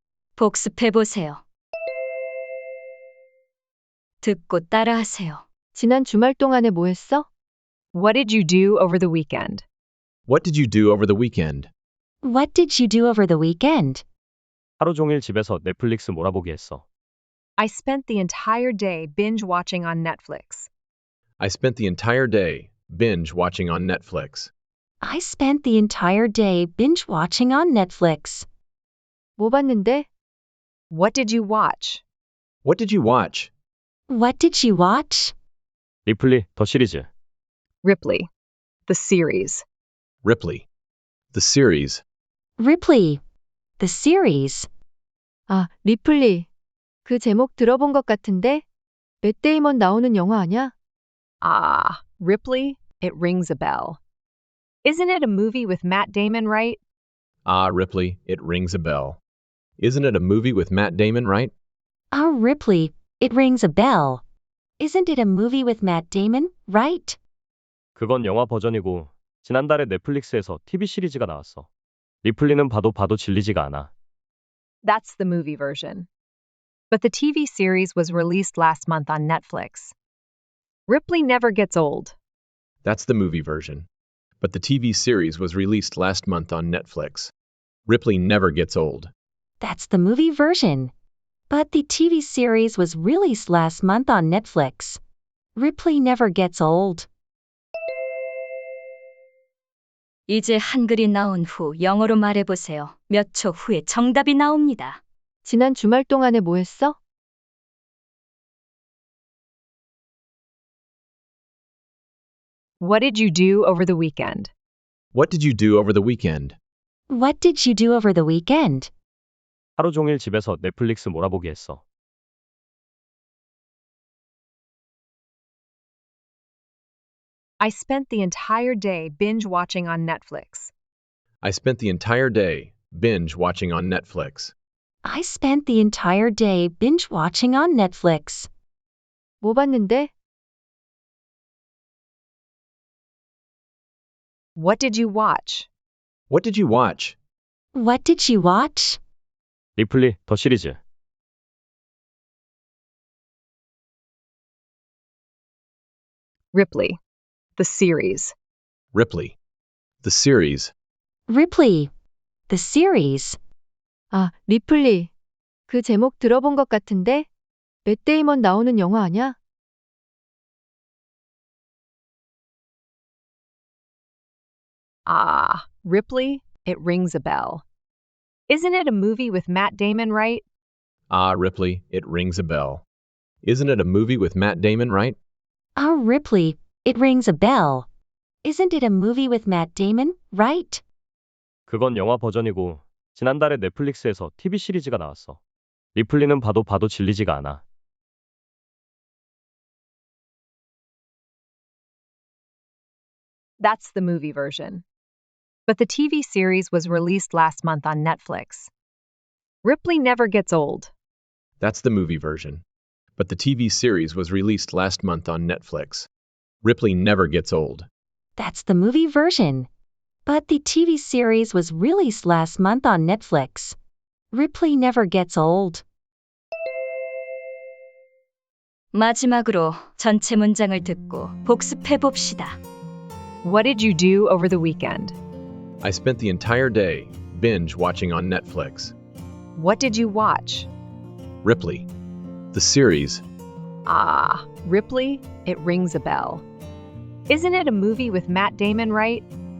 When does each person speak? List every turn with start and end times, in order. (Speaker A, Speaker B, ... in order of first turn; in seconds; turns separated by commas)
Speaker A: 0.4-1.4, Speaker A: 4.2-5.4, Speaker B: 5.7-7.3, Speaker C: 7.9-9.6, Speaker D: 10.3-11.7, Speaker E: 12.2-14.0, Speaker F: 14.8-16.8, Speaker C: 17.6-20.7, Speaker D: 21.4-24.5, Speaker E: 25.0-28.4, Speaker B: 29.4-30.1, Speaker C: 30.9-32.0, Speaker D: 32.6-33.5, Speaker E: 34.1-35.3, Speaker F: 36.0-37.1, Speaker C: 37.8-38.3, Speaker C: 38.9-39.6, Speaker D: 40.2-40.6, Speaker D: 41.3-42.0, Speaker E: 42.6-43.2, Speaker E: 43.8-44.7, Speaker B: 45.5-46.5, Speaker B: 47.0-48.6, Speaker B: 49.2-50.7, Speaker C: 51.4-54.0, Speaker C: 54.8-56.8, Speaker D: 57.5-59.2, Speaker D: 59.8-61.5, Speaker E: 62.1-64.2, Speaker E: 64.8-67.2, Speaker F: 68.0-71.7, Speaker F: 72.2-73.9, Speaker C: 74.8-76.1, Speaker C: 76.9-79.9, Speaker C: 80.9-82.1, Speaker D: 82.8-83.9, Speaker D: 84.4-87.3, Speaker D: 87.9-89.1, Speaker E: 89.6-90.9, Speaker E: 91.5-95.0, Speaker E: 95.5-97.1, Speaker A: 100.3-105.0, Speaker B: 105.4-107.0, Speaker C: 112.8-114.5, Speaker D: 115.1-116.6, Speaker E: 117.1-118.9, Speaker F: 119.8-121.8, Speaker C: 127.6-130.7, Speaker D: 131.4-134.5, Speaker E: 135.0-138.5, Speaker B: 139.4-140.1, Speaker C: 144.6-145.7, Speaker D: 146.3-147.2, Speaker E: 147.7-149.0, Speaker F: 149.8-150.8, Speaker C: 156.5-157.0, Speaker C: 157.6-158.3, Speaker D: 158.9-159.3, Speaker D: 160.0-160.7, Speaker E: 161.3-161.9, Speaker E: 162.5-163.4, Speaker B: 164.1-165.1, Speaker B: 165.7-167.3, Speaker B: 167.8-169.3, Speaker C: 175.1-177.6, Speaker C: 178.5-180.4, Speaker D: 181.1-182.8, Speaker D: 183.4-185.2, Speaker E: 185.8-187.9, Speaker E: 188.4-190.8, Speaker F: 191.7-195.4, Speaker F: 195.9-197.6, Speaker C: 203.6-204.8, Speaker C: 205.7-208.7, Speaker C: 209.6-210.9, Speaker D: 211.6-212.6, Speaker D: 213.2-216.1, Speaker D: 216.6-217.9, Speaker E: 218.4-219.7, Speaker E: 220.2-223.8, Speaker E: 224.3-225.8, Speaker A: 228.9-232.6, Speaker C: 233.4-235.2, Speaker D: 235.8-238.9, Speaker C: 239.6-240.7, Speaker D: 241.4-241.9, Speaker D: 242.5-243.2, Speaker C: 243.8-246.4, Speaker C: 247.3-249.2